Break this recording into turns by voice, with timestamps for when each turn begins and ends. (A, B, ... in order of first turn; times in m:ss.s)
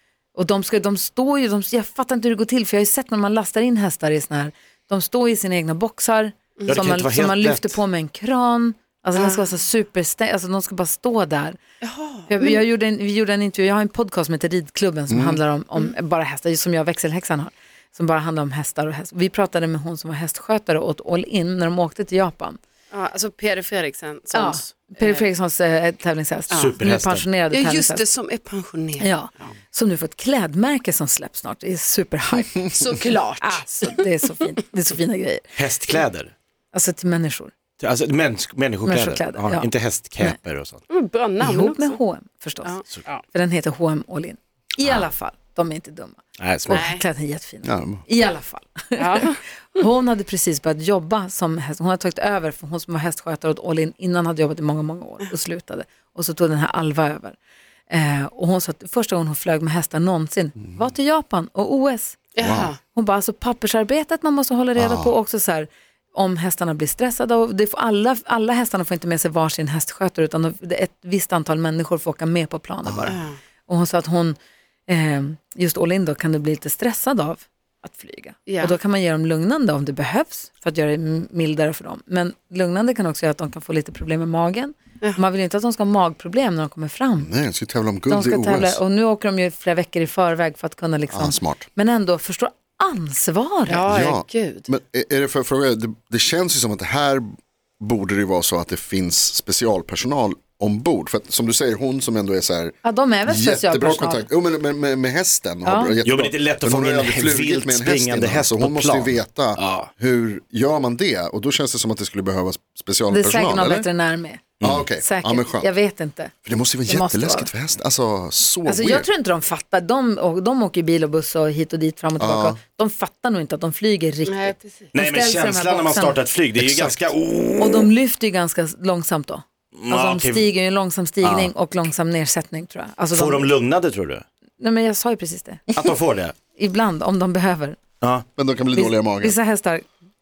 0:00.3-0:11.6 A
0:06.7-0:07.8 B
0:09.2-0:09.4 C
0:11.8-0:12.6 C
0:12.3-0:22.6 A
0:15.1-0:15.4 D
0:22.9-0:25.3 C
0:24.3-0:28.0 A
0:26.5-0:26.7 C
0:26.5-0:27.2 B
0:27.5-0:29.5 C
0:29.0-0:32.7 A
0:32.6-0:33.6 C
0:33.4-0:35.5 A
0:35.5-0:36.3 B
0:36.7-0:37.5 A
0:37.8-0:40.8 B
0:38.8-0:40.4 A
0:40.9-0:42.0 C
0:41.4-0:42.8 A
0:42.6-0:43.2 C
0:43.3-0:57.4 A
0:46.4-0:46.9 B
0:46.7-0:47.0 C
0:47.6-0:48.0 D
0:49.0-0:49.4 C
0:57.9-1:02.2 A
1:02.3-1:02.8 C
1:02.4-1:02.7 D
1:02.9-1:27.3 A
1:04.8-1:05.2 D
1:12.8-1:13.2 D
1:13.1-1:13.4 C
1:18.5-1:18.7 C
1:27.2-1:28.8 D
1:28.1-1:33.8 A
1:31.1-1:31.7 D
1:33.7-1:34.7 C
1:33.9-1:37.3 D
1:37.8-1:53.9 D
1:42.8-1:44.3 A
1:45.6-1:46.0 A
1:46.0-1:49.9 B
1:53.1-1:54.4 A
1:54.6-1:54.9 B
1:54.6-1:55.7 D
1:55.0-1:56.3 A
1:56.4-1:59.1 D
1:56.8-1:57.5 A
1:58.6-2:06.2 A
2:02.2-2:02.6 D
2:04.2-2:04.9 C
2:04.9-2:07.9 B
2:06.6-2:07.0 D
2:07.6-2:13.5 A
2:09.8-2:10.5 B
2:11.2-2:11.5 B
2:13.1-2:14.2 B
2:14.6-2:15.6 A
2:15.7-2:16.3 B
2:16.6-2:17.8 A
2:18.4-2:19.4 D
2:18.7-2:19.8 A